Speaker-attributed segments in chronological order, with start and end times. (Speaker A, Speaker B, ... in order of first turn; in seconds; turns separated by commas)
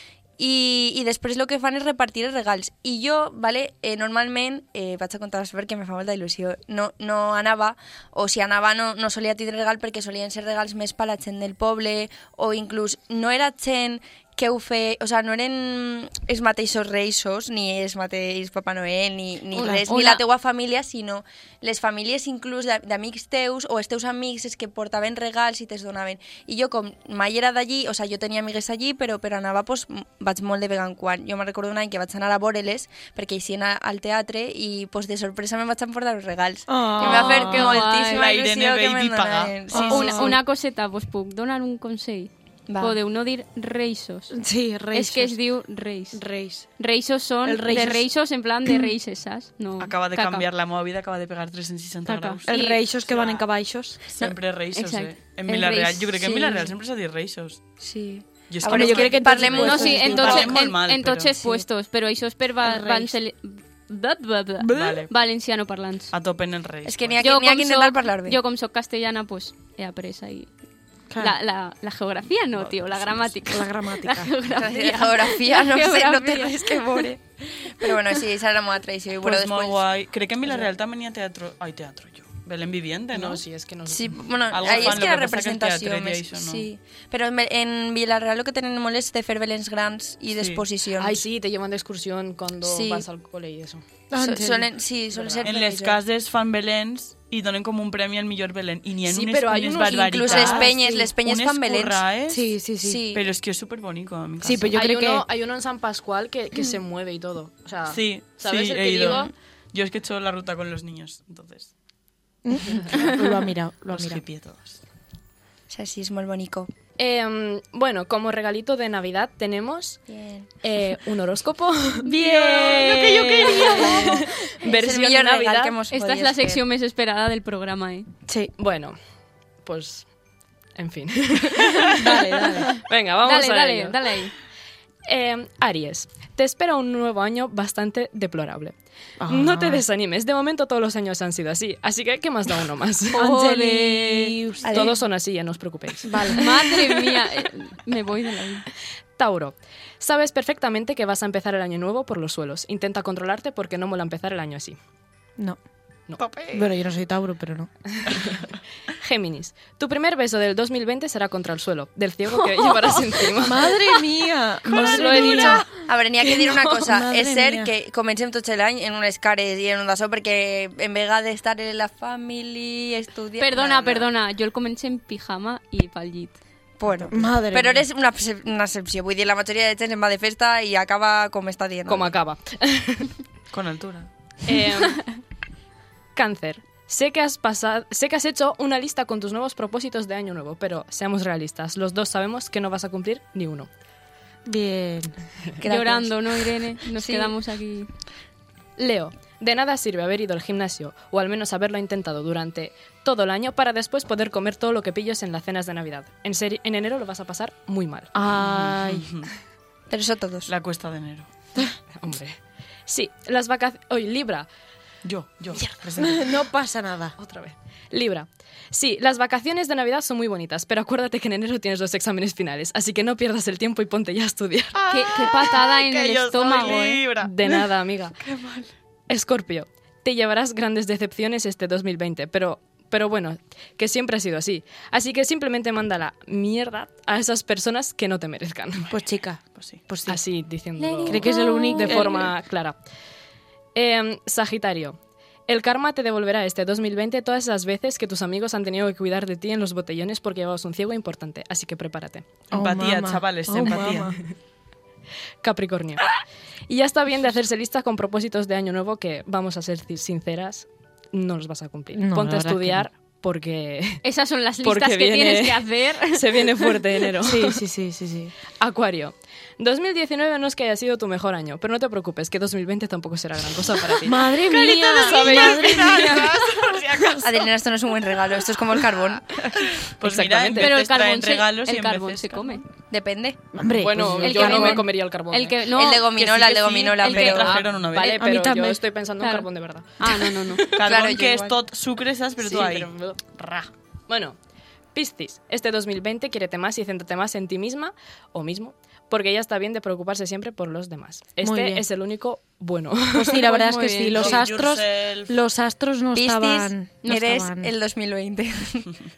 Speaker A: 0.4-40.3, Speaker B: 19.5-19.9, Speaker C: 19.6-20.2, Speaker B: 36.7-37.8, Speaker C: 37.0-38.3, Speaker D: 37.3-39.7, Speaker B: 39.7-40.4, Speaker C: 39.8-44.3, Speaker A: 42.7-43.0, Speaker B: 44.3-45.4, Speaker C: 44.9-46.2, Speaker B: 46.1-46.7, Speaker C: 46.8-50.5, Speaker B: 47.4-48.1, Speaker B: 48.6-48.9, Speaker D: 49.8-53.4, Speaker C: 52.1-52.8, Speaker B: 52.4-54.0, Speaker D: 54.1-57.6, Speaker C: 54.7-56.1, Speaker A: 56.2-56.7, Speaker A: 57.8-60.6, Speaker D: 58.5-61.3, Speaker B: 58.6-60.5, Speaker C: 59.6-66.1, Speaker B: 62.6-63.1, Speaker B: 64.6-65.0, Speaker D: 64.7-65.1, Speaker D: 66.1-67.2, Speaker A: 66.8-68.4, Speaker C: 67.2-70.5, Speaker B: 71.1-71.3, Speaker C: 71.2-77.1, Speaker D: 72.6-73.3, Speaker B: 73.5-74.3, Speaker A: 74.5-79.8, Speaker D: 79.2-83.4, Speaker E: 83.1-85.2, Speaker A: 83.9-91.2, Speaker D: 84.5-86.7, Speaker D: 90.3-90.6, Speaker E: 91.0-93.8, Speaker A: 92.6-93.0, Speaker B: 94.1-94.7, Speaker A: 94.1-96.0, Speaker E: 95.1-95.5, Speaker D: 95.4-102.5, Speaker E: 99.0-100.8, Speaker A: 99.8-102.0, Speaker B: 100.7-101.1, Speaker B: 102.3-103.0, Speaker A: 102.8-103.2, Speaker D: 103.1-104.7, Speaker B: 104.4-105.2, Speaker E: 104.7-109.3, Speaker D: 107.9-111.7, Speaker B: 112.4-114.2, Speaker D: 113.9-114.8, Speaker A: 115.7-116.7, Speaker E: 117.0-120.0, Speaker A: 120.1-120.5, Speaker E: 120.6-122.1, Speaker B: 122.0-124.2, Speaker A: 122.2-126.6, Speaker D: 122.5-123.2, Speaker E: 123.3-125.8, Speaker C: 125.9-128.1, Speaker B: 128.3-128.5, Speaker E: 128.6-129.0, Speaker E: 129.6-130.1, Speaker E: 130.7-134.0, Speaker B: 132.0-132.7, Speaker C: 133.2-134.3, Speaker E: 135.1-143.2, Speaker B: 139.2-139.8, Speaker C: 143.1-144.3, Speaker B: 143.2-144.9, Speaker A: 144.6-145.0, Speaker E: 144.7-146.5, Speaker B: 146.0-146.4, Speaker C: 146.3-148.7, Speaker E: 149.2-154.8, Speaker D: 156.2-156.7, Speaker B: 156.5-157.7, Speaker E: 158.0-158.4, Speaker E: 158.9-163.8, Speaker C: 162.5-163.0, Speaker B: 163.3-165.7, Speaker E: 164.7-165.8, Speaker A: 164.8-174.1, Speaker B: 166.7-167.7, Speaker C: 173.4-176.4, Speaker A: 176.8-182.1, Speaker B: 177.1-177.8, Speaker E: 181.9-183.1, Speaker D: 183.5-184.1, Speaker E: 184.4-185.2, Speaker E: 186.1-193.7, Speaker B: 194.4-195.2, Speaker A: 195.6-197.3, Speaker C: 195.6-197.9, Speaker E: 198.8-208.1, Speaker B: 208.1-209.1, Speaker D: 208.4-209.3, Speaker A: 209.9-210.5, Speaker D: 210.5-211.3, Speaker E: 211.9-214.5, Speaker D: 215.0-216.2, Speaker B: 216.0-217.2, Speaker E: 217.2-224.8, Speaker D: 224.7-227.7, Speaker C: 224.9-227.0, Speaker E: 227.2-228.1, Speaker D: 228.2-228.7, Speaker E: 229.1-238.9, Speaker B: 238.9-240.2, Speaker D: 239.5-239.8, Speaker E: 240.1-242.8, Speaker C: 240.8-242.2, Speaker B: 241.0-242.3, Speaker E: 243.7-252.3, Speaker D: 252.5-254.2, Speaker B: 252.5-254.2, Speaker E: 255.4-256.1, Speaker E: 256.7-264.0, Speaker B: 261.9-262.9, Speaker C: 264.0-266.8, Speaker E: 264.6-267.6, Speaker B: 267.2-268.3, Speaker E: 268.5-274.4, Speaker B: 274.0-276.3, Speaker D: 274.5-277.5, Speaker E: 275.0-276.3, Speaker A: 277.2-279.4, Speaker D: 279.4-282.6, Speaker E: 280.0-280.7, Speaker C: 280.5-282.6, Speaker A: 282.9-283.5, Speaker B: 283.5-284.8, Speaker E: 283.8-285.7, Speaker C: 284.2-286.2, Speaker A: 285.7-287.6, Speaker D: 286.1-288.2, Speaker C: 287.0-288.1, Speaker E: 287.5-290.8, Speaker B: 288.2-288.8, Speaker C: 289.2-289.5, Speaker C: 290.0-290.6, Speaker D: 290.8-293.7, Speaker A: 290.8-291.5, Speaker E: 292.4-293.3, Speaker E: 294.1-294.4, Speaker E: 294.9-304.4, Speaker B: 301.4-301.8, Speaker B: 303.1-307.7, Speaker C: 303.7-304.2, Speaker D: 304.1-305.4, Speaker A: 306.1-308.9, Speaker C: 307.0-307.3